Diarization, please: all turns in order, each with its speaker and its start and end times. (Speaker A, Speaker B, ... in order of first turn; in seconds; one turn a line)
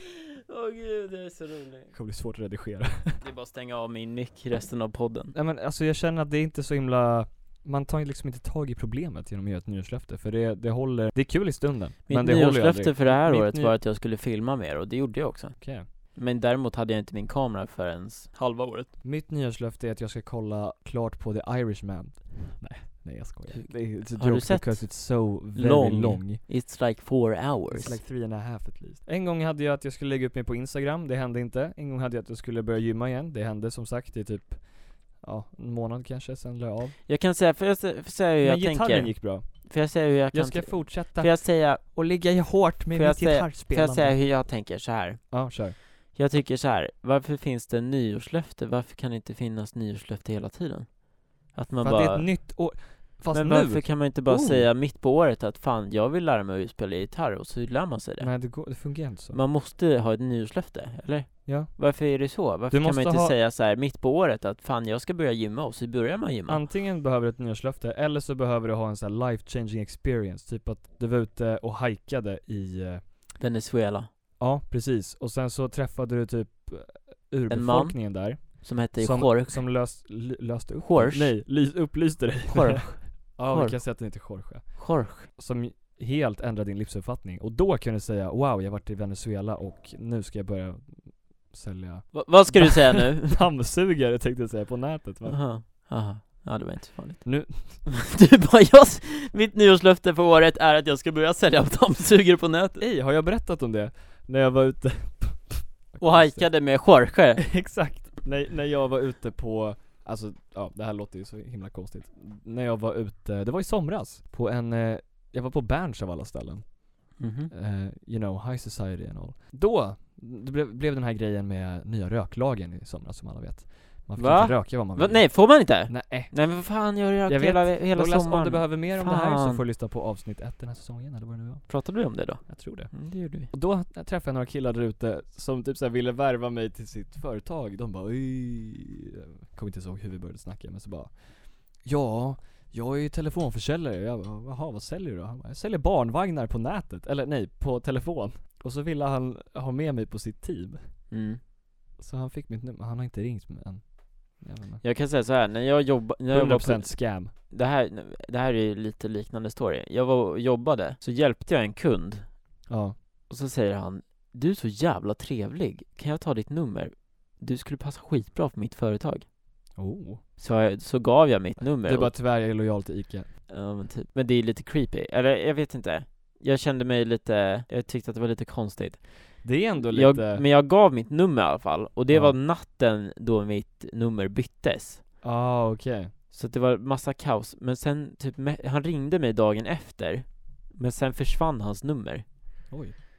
Speaker A: 0.5-1.9
Speaker B: 1.9-3.2
Speaker A: 3.2-5.3
Speaker B: 5.3-13.8
Speaker A: 12.1-18.9
Speaker B: 15.6-15.9
Speaker B: 19.0-26.4
Speaker A: 23.5-28.0
Speaker B: 27.7-37.0
Speaker A: 37.1-41.8
Speaker B: 38.4-39.8
Speaker B: 40.3-44.2
Speaker A: 42.9-45.5
Speaker B: 45.3-45.8
Speaker A: 46.1-52.4
Speaker B: 51.8-54.7
Speaker A: 53.3-58.3
Speaker B: 58.2-59.4
Speaker A: 59.3-66.6
Speaker B: 61.5-63.4
Speaker B: 66.5-73.0
Speaker A: 73.4-74.1
Speaker B: 74.4-95.4
Speaker A: 77.5-79.6
Speaker A: 80.8-81.4
Speaker A: 82.5-83.8
Speaker A: 84.8-85.3
Speaker A: 92.1-93.4
Speaker A: 95.3-102.8
Speaker B: 97.2-97.9
Speaker B: 102.8-106.5
Speaker A: 106.0-107.7
Speaker B: 107.5-150.9
Speaker A: 117.2-117.5
Speaker A: 124.2-129.6
Speaker A: 131.7-133.5
Speaker A: 151.1-151.4
Speaker B: 152.0-154.8
Speaker A: 154.8-162.5
Speaker B: 156.3-157.3
Speaker B: 162.7-163.0
Speaker A: 163.3-169.3
Speaker B: 169.8-170.2
Speaker A: 170.4-172.1
Speaker B: 171.7-173.3
Speaker A: 173.5-185.0
Speaker B: 179.4-180.5
Speaker B: 182.1-182.4
Speaker B: 185.2-186.1
Speaker A: 186.3-192.3
Speaker B: 192.7-192.9